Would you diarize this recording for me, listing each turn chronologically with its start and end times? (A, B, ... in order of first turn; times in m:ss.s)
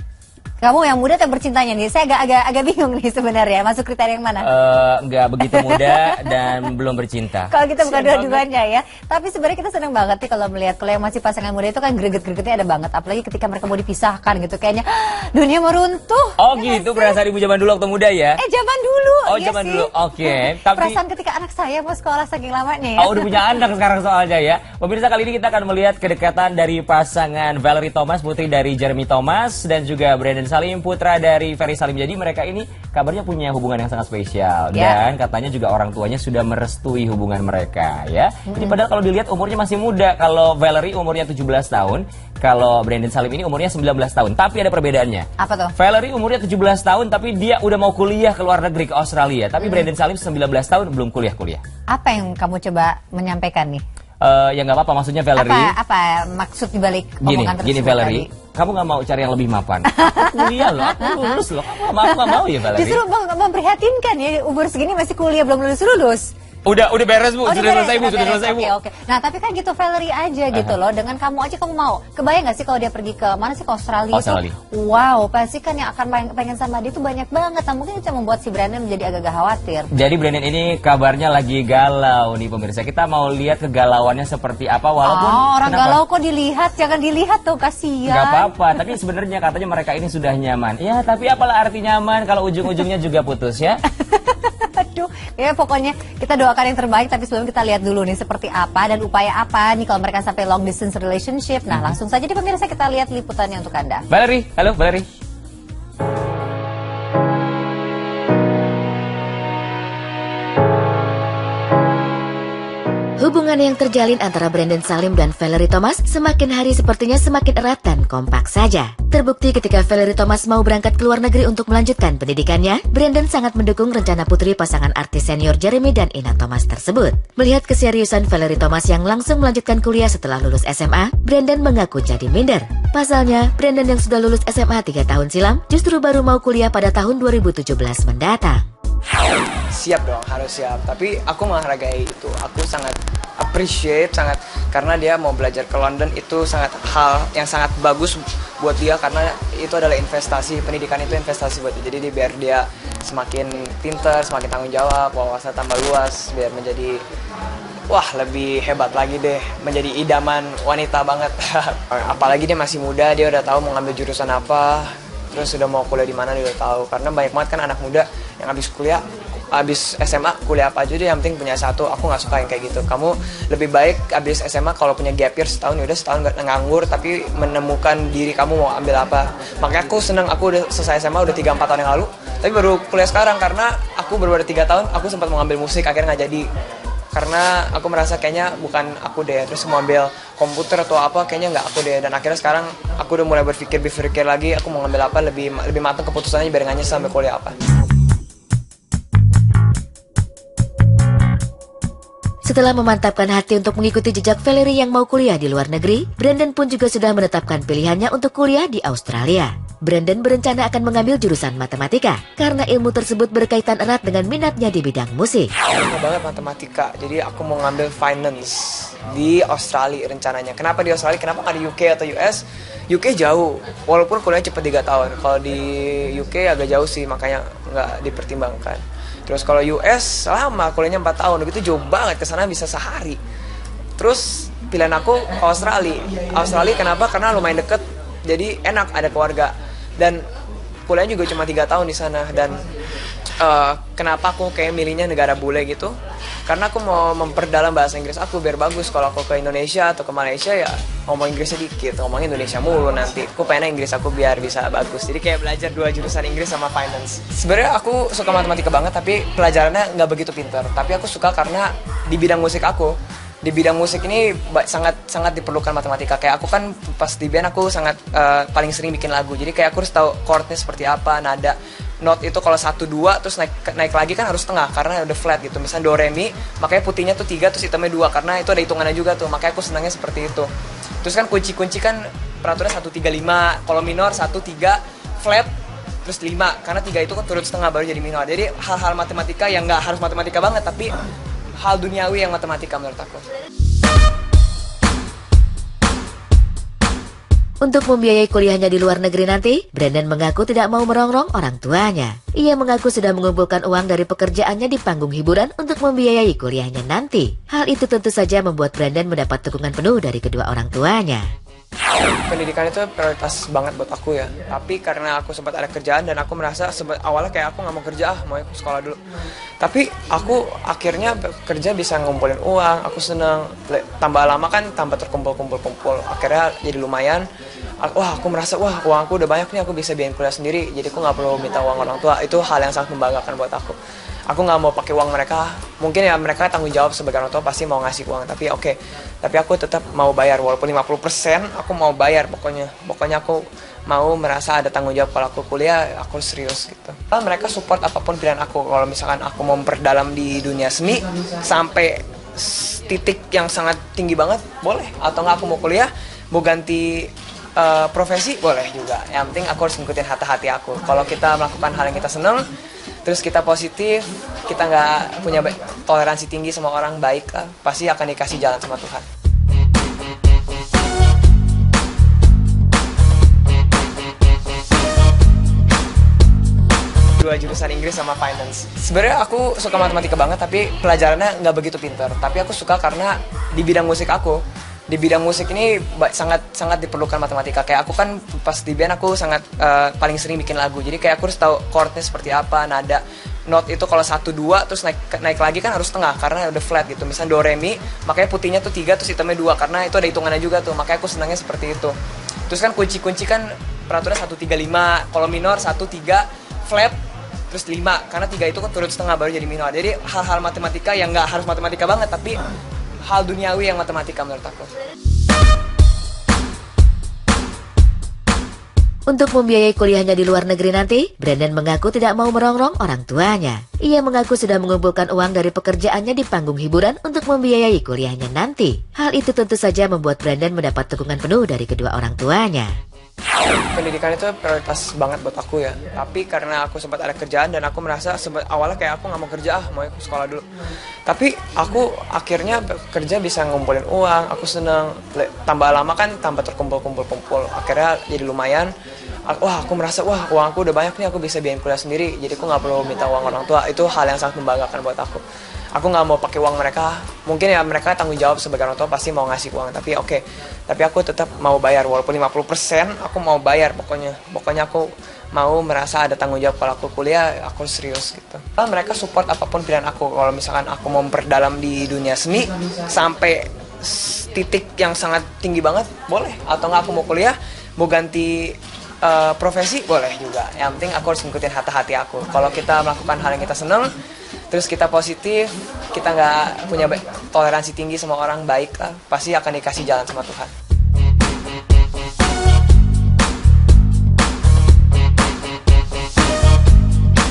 0:00.6-0:04.5 A
0:04.4-0:08.4 B
0:05.4-0:06.6 A
0:07.5-0:17.2 A
0:16.4-0:18.4 B
0:18.4-0:23.4 A
0:19.3-0:21.0 B
0:23.0-0:51.6 B
0:38.5-0:38.8 A
0:45.4-0:45.7 A
0:51.9-0:53.8 A
0:54.2-0:55.7 B
0:55.4-0:58.3 A
0:57.2-1:03.0 B
0:59.9-1:01.4 A
1:01.9-1:06.3 A
1:06.7-1:08.7 B
1:07.4-1:19.9 A
1:14.1-1:14.6 B
1:19.9-1:26.0 B
1:25.0-1:28.6 A
1:28.1-1:33.8 B
1:33.9-1:44.0 A
1:41.7-1:42.0 B
1:44.1-1:45.1 B
1:53.2-2:18.7 C
2:19.7-2:37.0 D
2:37.9-3:06.5 D
3:07.1-3:17.6 D
3:22.4-3:35.5 C
3:35.7-3:53.2 D
3:54.0-4:00.2 D
4:00.9-4:02.7 D
4:03.4-4:05.9 D
4:06.5-4:40.5 D
4:41.0-4:45.5 D
4:46.0-4:50.9 D
4:51.6-4:53.2 D
4:57.6-5:11.3 C
5:12.3-5:19.0 D
5:19.6-5:27.3 D
5:27.8-5:33.8 D
5:34.3-6:02.5 D
6:03.0-6:09.1 D
6:17.2-6:42.0 D
6:42.5-6:47.0 D
6:47.5-6:52.4 D
6:53.0-6:54.7 D
6:59.1-7:12.7 C
7:13.7-7:20.5 D
7:21.1-7:28.7 D
7:29.3-7:35.2 D
7:35.8-8:03.9 D
8:04.5-8:10.5 D